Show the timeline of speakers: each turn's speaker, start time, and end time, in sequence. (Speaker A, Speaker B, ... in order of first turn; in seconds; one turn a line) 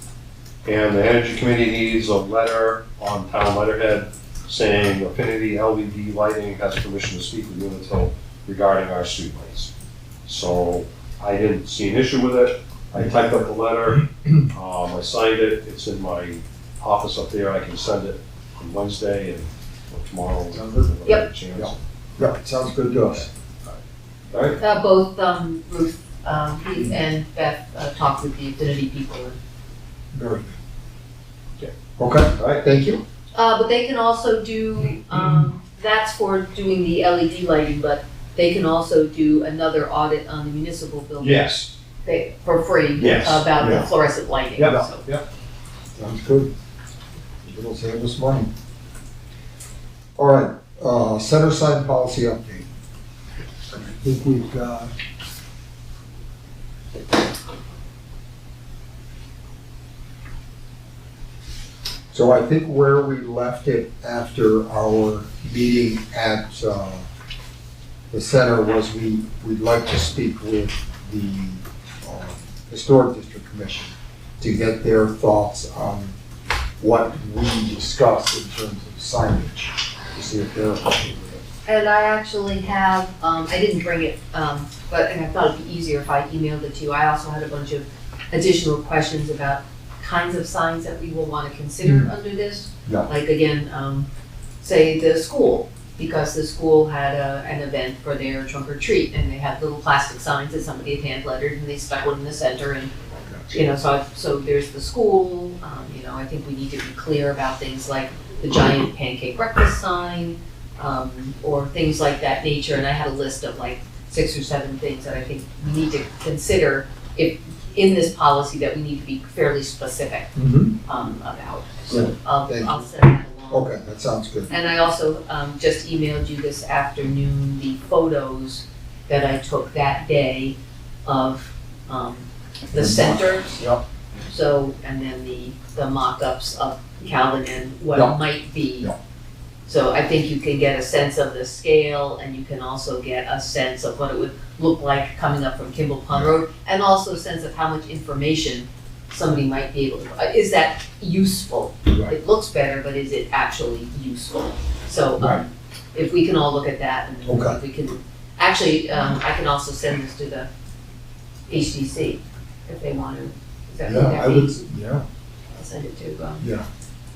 Speaker A: 0.6-9.7
Speaker A: 10.2-21.8
Speaker B: 20.5-20.9
Speaker B: 21.5-23.3
Speaker A: 24.3-24.6
Speaker C: 24.6-29.4
Speaker B: 26.7-27.0
Speaker B: 30.1-30.5
Speaker B: 32.0-33.0
Speaker A: 32.4-32.6
Speaker C: 33.3-41.5
Speaker A: 41.2-41.7
Speaker C: 42.0-45.0
Speaker A: 43.0-43.5
Speaker B: 43.6-43.9
Speaker A: 44.6-45.2
Speaker B: 46.0-46.5
Speaker B: 47.4-48.5
Speaker B: 50.2-52.7
Speaker B: 53.7-54.9
Speaker B: 62.1-67.0
Speaker B: 68.1-76.2
Speaker B: 76.8-81.4
Speaker C: 81.7-94.1
Speaker B: 91.8-92.1
Speaker C: 94.6-102.9
Speaker C: 103.5-120.3
Speaker B: 120.3-120.8
Speaker C: 120.8-123.7
Speaker B: 121.9-122.8
Speaker B: 123.5-124.5
Speaker C: 124.5-133.5
Speaker B: 132.7-133.8
Speaker C: 134.3-138.9
Speaker C: 139.7-160.5
Speaker B: 155.2-155.4
Speaker B: 157.2-157.6
Speaker C: 161.5-164.5
Speaker B: 163.8-165.0
Speaker C: 165.5-166.4
Speaker B: 166.4-166.7